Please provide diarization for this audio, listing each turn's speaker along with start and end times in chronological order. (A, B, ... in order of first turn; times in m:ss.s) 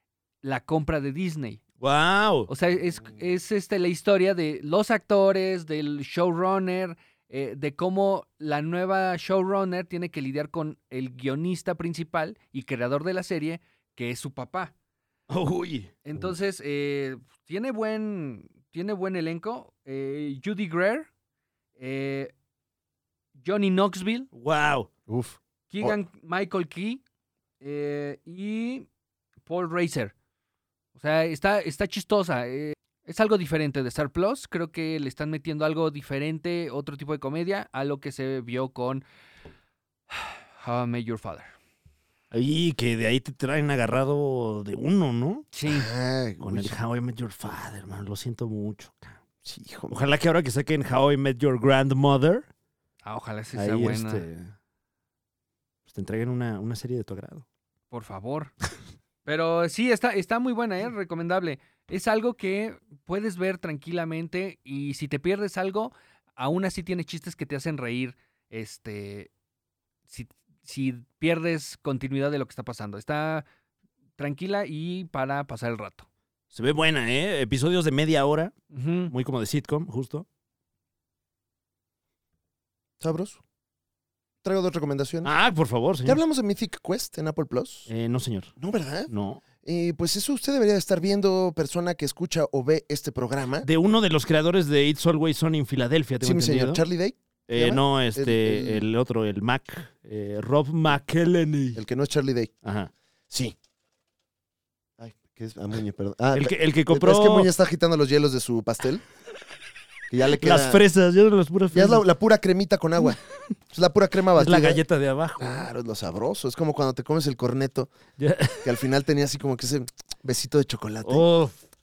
0:00.4-0:01.6 A
0:01.8-0:02.5 B
0:02.5-0:14.7 A
0:15.3-0:15.9 B
0:16.0-0:21.1 A
0:21.8-0:22.3 A
0:23.4-0:24.3 A
0:24.3-0:24.9 B
0:25.1-0:26.0 C
0:25.7-0:27.0 A
0:27.6-0:28.9 A
0:29.5-0:30.1 A
0:31.0-0:39.0 A
0:40.1-0:41.5 A
0:42.3-0:45.5 B
0:45.5-0:45.9 A
0:45.7-0:46.8 C
0:46.4-0:49.2 B
0:49.4-0:50.0 C
0:49.9-0:52.5 B
0:53.0-0:54.2 A
0:53.5-0:54.5 B
0:55.9-0:57.4 B
0:57.9-0:58.5 A
0:59.2-1:09.3 A
1:10.1-1:13.5 A
1:14.2-1:16.1 A
1:16.5-1:18.6 B
1:18.7-1:19.1 A
1:19.1-1:20.3 B
1:23.0-1:23.4 C
1:24.4-1:25.3 C
1:25.2-1:26.2 B
1:26.1-1:27.9 C
1:27.9-1:28.5 B
1:28.6-1:29.1 C
1:29.1-1:29.4 B
1:29.6-1:33.7 C
1:33.6-1:36.8 B
1:36.2-1:38.8 C
1:37.5-1:41.8 B
1:41.8-1:42.5 C
1:42.6-1:42.9 B
1:43.3-1:43.6 C
1:45.0-1:49.0 C
1:46.3-1:47.5 B
1:50.1-1:50.8 C
1:50.4-1:52.0 B
1:51.7-1:53.2 C
1:53.7-1:54.8 C
1:54.4-1:55.6 B
1:55.4-1:57.9 C
1:58.2-1:58.7 B
1:58.6-2:01.2 C
2:01.0-2:01.6 B